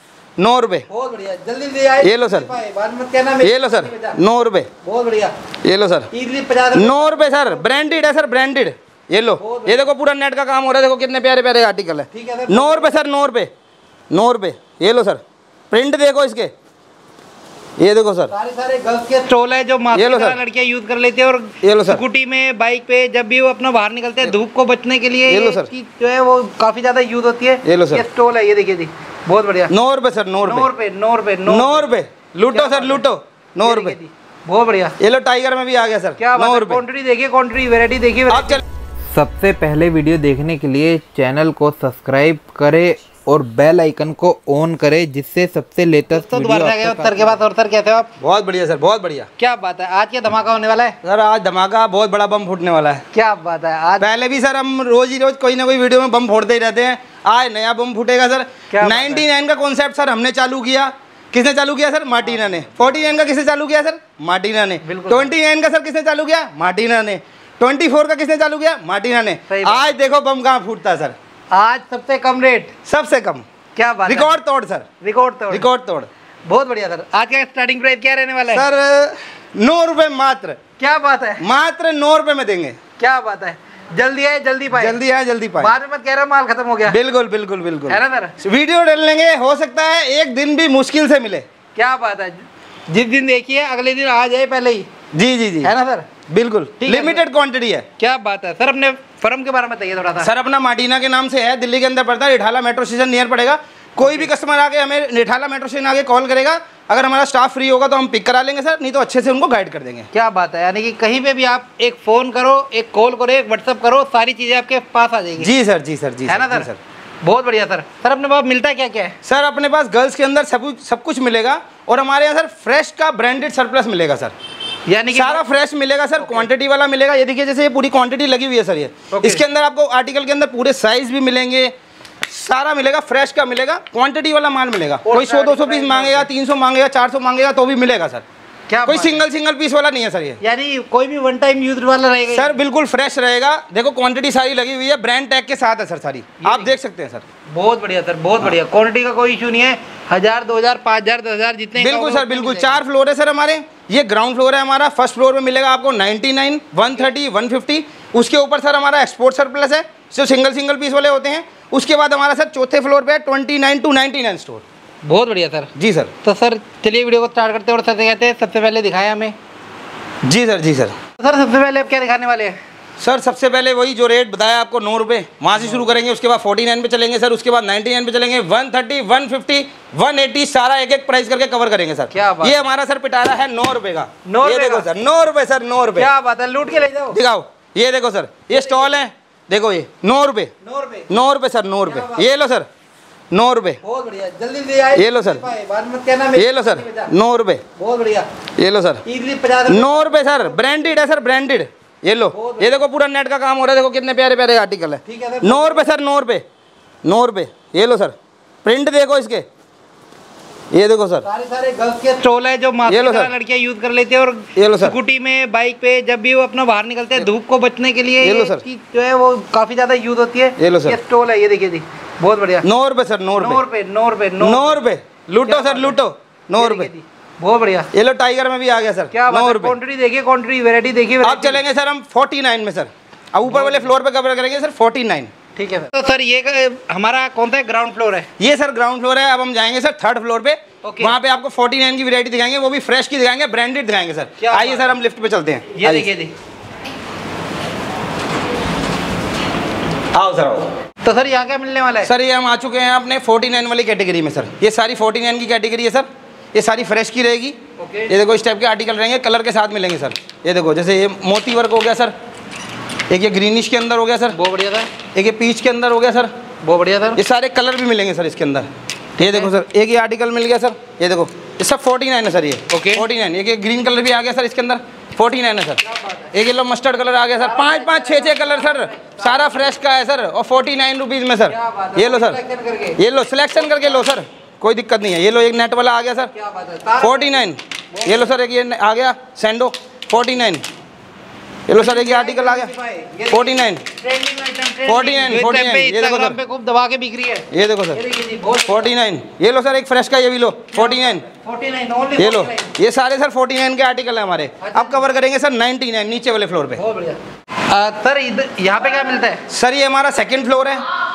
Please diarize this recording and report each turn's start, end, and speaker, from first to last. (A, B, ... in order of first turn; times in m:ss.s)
0:00.4-0:00.9 A
0:00.9-0:04.2 B
0:02.0-0:02.5 A
0:03.4-0:04.7 A
0:04.8-0:05.3 B
0:05.6-0:06.1 A
0:06.1-0:08.2 B
0:06.7-0:13.5 A
0:09.4-0:09.9 B
0:12.1-0:12.9 B
0:14.1-0:16.5 A
0:17.8-0:18.3 A
0:18.3-0:29.7 B
0:19.9-0:20.4 A
0:21.6-0:22.0 A
0:25.3-0:25.7 A
0:27.6-0:28.0 A
0:29.7-0:30.7 A
0:30.4-0:31.9 B
0:31.4-0:34.0 A
0:32.5-0:33.0 B
0:33.6-0:35.0 B
0:35.0-0:36.8 A
0:36.2-0:38.6 B
0:38.3-0:38.6 A
0:39.1-0:47.3 C
0:46.1-0:48.1 B
0:48.2-0:49.3 A
0:49.4-0:51.0 B
0:51.0-0:53.0 A
0:53.1-0:54.1 B
0:54.0-1:11.2 A
0:58.7-0:59.2 B
1:04.8-1:05.3 B
1:09.5-1:09.8 B
1:11.5-1:12.7 B
1:12.8-1:13.4 A
1:13.7-1:14.4 B
1:14.0-1:14.9 A
1:15.0-1:15.7 B
1:15.5-1:16.1 A
1:16.4-1:18.7 B
1:18.5-1:20.6 A
1:20.8-1:21.4 B
1:21.4-1:22.8 A
1:23.0-1:25.0 B
1:24.7-1:25.7 A
1:25.6-1:27.0 B
1:26.8-1:31.4 A
1:27.9-1:28.3 B
1:31.7-1:34.9 B
1:35.1-1:35.7 A
1:35.6-1:36.1 B
1:36.3-1:37.8 A
1:36.8-1:37.2 B
1:38.0-1:40.3 B
1:40.2-1:50.1 A
1:44.0-1:44.3 B
1:50.1-1:55.5 B
1:55.4-1:56.8 A
1:56.2-1:56.7 B
1:57.2-1:59.1 B
1:59.2-2:04.3 A
2:04.9-2:05.4 B
2:05.1-2:11.7 A
2:06.2-2:06.5 B
2:09.1-2:09.4 B
2:12.2-2:18.2 A
2:15.0-2:16.3 B
2:18.7-2:19.2 B
2:18.8-2:20.4 A
2:20.4-2:22.5 B
2:22.3-2:27.2 A
2:26.4-2:26.8 B
2:27.5-2:32.8 B
2:31.8-2:44.6 A
2:36.9-2:37.1 B
2:45.0-2:45.7 B
2:45.8-2:46.1 A
2:46.2-2:49.4 B
2:50.2-2:51.0 A
2:51.2-2:52.6 B
2:53.0-3:06.1 A
3:02.1-3:02.6 B
3:04.2-3:04.9 B
3:06.0-3:07.2 B
3:07.1-3:10.5 A
3:08.5-3:09.0 B
3:10.6-3:11.1 B
3:11.1-3:12.7 A
3:11.8-3:12.3 B
3:13.3-3:13.8 A
3:13.8-3:17.1 B
3:14.9-3:15.5 A
3:16.3-3:17.6 A
3:17.8-3:18.3 B
3:18.6-3:19.0 A
3:19.0-3:21.2 B
3:19.6-3:26.4 A
3:22.3-3:22.8 B
3:25.0-3:25.8 B
3:27.0-3:29.4 A
3:30.7-3:31.3 A
3:31.2-3:42.7 B
3:32.9-3:33.3 A
3:34.5-3:35.0 A
3:38.2-3:38.6 A
3:40.6-3:41.0 A
3:42.6-3:43.6 A
3:43.4-3:44.8 B
3:44.4-3:46.9 A
3:45.4-3:46.0 B
3:46.6-3:47.9 B
3:47.9-3:49.8 A
3:49.1-3:51.6 B
3:51.2-3:55.3 A
3:53.4-3:53.9 B
3:55.6-3:58.3 B
3:58.4-4:06.1 A
4:00.8-4:01.1 B
4:04.4-4:04.9 B
4:05.7-4:06.3 B
4:10.1-4:10.7 A
4:11.0-4:12.1 B
4:12.0-4:22.1 A
4:17.8-4:18.1 B
4:23.1-4:24.4 A
4:24.3-4:24.9 B
4:25.1-4:26.3 A
4:26.6-4:27.2 B
4:27.1-4:42.4 A
4:29.2-4:29.5 B
4:32.7-4:33.0 B
4:35.8-4:36.3 B
4:37.4-4:39.7 B
4:41.5-4:43.0 B
4:43.0-4:46.3 A
4:43.6-4:44.0 B
4:46.3-4:47.4 B
4:47.0-4:50.6 A
4:47.9-4:48.3 B
4:51.7-4:52.7 A
4:51.7-4:58.9 B
4:53.3-4:53.8 A
4:54.8-4:56.4 A
4:57.5-4:58.0 A
4:58.6-5:01.2 A
5:00.7-5:02.7 B
5:02.2-5:06.8 A
5:04.6-5:05.0 B
5:06.8-5:09.4 B
5:09.5-5:10.8 A